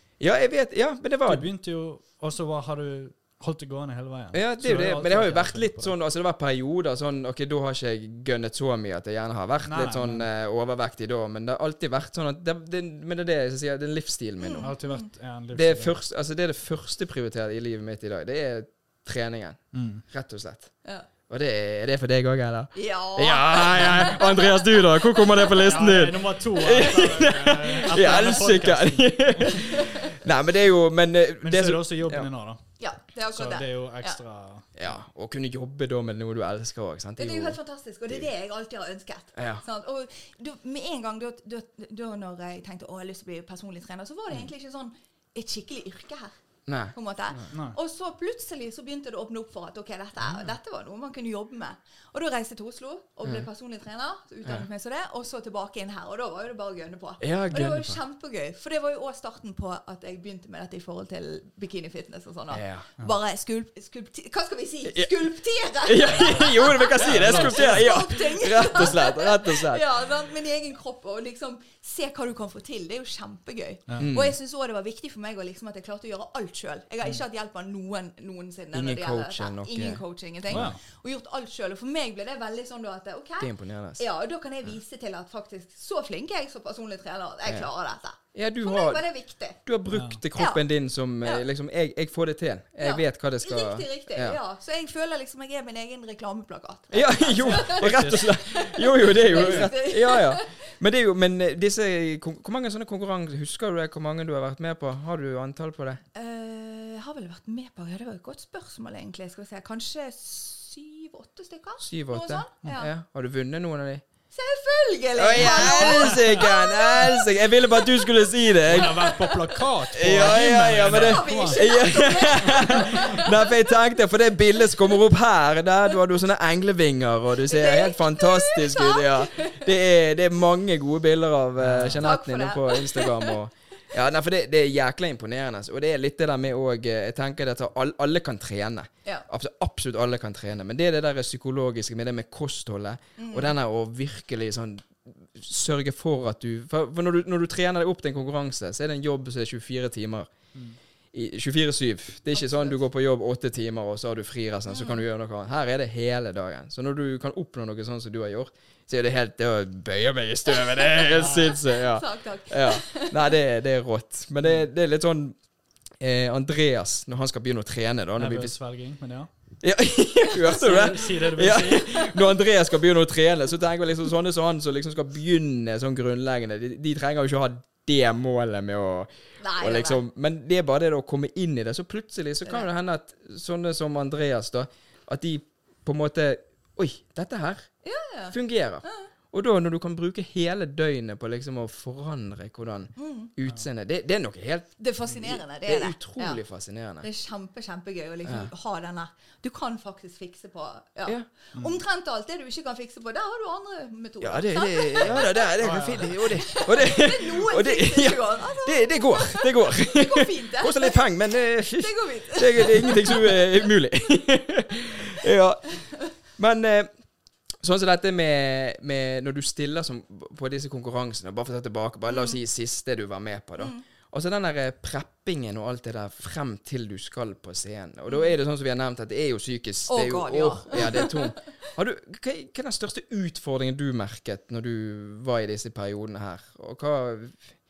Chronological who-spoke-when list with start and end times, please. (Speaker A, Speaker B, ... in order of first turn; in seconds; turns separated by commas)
Speaker A: 0.2-1.5, Speaker B: 1.2-5.9, Speaker A: 4.3-14.7, Speaker B: 9.6-10.3, Speaker C: 14.4-15.1, Speaker B: 14.6-16.0, Speaker A: 15.5-20.7, Speaker B: 19.7-20.0, Speaker A: 21.3-32.3, Speaker C: 22.8-25.6, Speaker B: 25.5-29.7, Speaker C: 29.5-30.2, Speaker B: 31.4-32.6, Speaker C: 32.8-34.2, Speaker B: 33.3-34.7, Speaker A: 34.8-37.6, Speaker C: 37.2-46.3, Speaker A: 39.4-39.6, Speaker A: 46.7-47.5, Speaker C: 46.9-89.6, Speaker B: 47.5-47.8, Speaker A: 57.2-58.0, Speaker A: 62.5-62.9, Speaker A: 65.8-69.8, Speaker B: 67.0-67.9, Speaker A: 74.0-74.3, Speaker A: 78.7-80.7, Speaker B: 80.5-80.8, Speaker A: 83.4-84.0, Speaker A: 88.3-89.0, Speaker A: 89.6-94.4, Speaker B: 89.9-90.2, Speaker C: 90.3-90.6, Speaker C: 92.8-100.5, Speaker A: 96.9-106.0, Speaker B: 97.5-98.3, Speaker B: 99.3-99.7, Speaker C: 106.2-112.9, Speaker A: 111.8-114.0, Speaker C: 114.3-117.3, Speaker A: 115.2-119.2, Speaker B: 115.4-116.4, Speaker B: 118.7-121.7, Speaker A: 119.9-150.3, Speaker C: 120.9-123.5, Speaker B: 122.5-123.0, Speaker C: 127.5-129.7, Speaker B: 131.6-132.0, Speaker C: 132.0-133.3, Speaker C: 143.2-143.5, Speaker A: 151.1-165.4, Speaker C: 152.3-152.8, Speaker C: 154.7-155.0, Speaker C: 160.6-163.3, Speaker B: 161.1-161.6, Speaker A: 166.0-168.5, Speaker B: 168.2-169.3, Speaker A: 169.6-187.7, Speaker B: 170.4-171.9, Speaker C: 170.6-170.9, Speaker C: 171.9-172.3, Speaker C: 179.4-180.0, Speaker C: 187.8-189.1, Speaker A: 188.3-197.1, Speaker C: 193.0-193.3, Speaker C: 194.8-196.4, Speaker C: 197.0-213.6, Speaker A: 204.2-215.8, Speaker B: 205.1-206.2, Speaker A: 216.4-216.9, Speaker A: 217.6-237.4, Speaker C: 222.1-222.4, Speaker C: 223.6-223.8, Speaker C: 229.9-231.4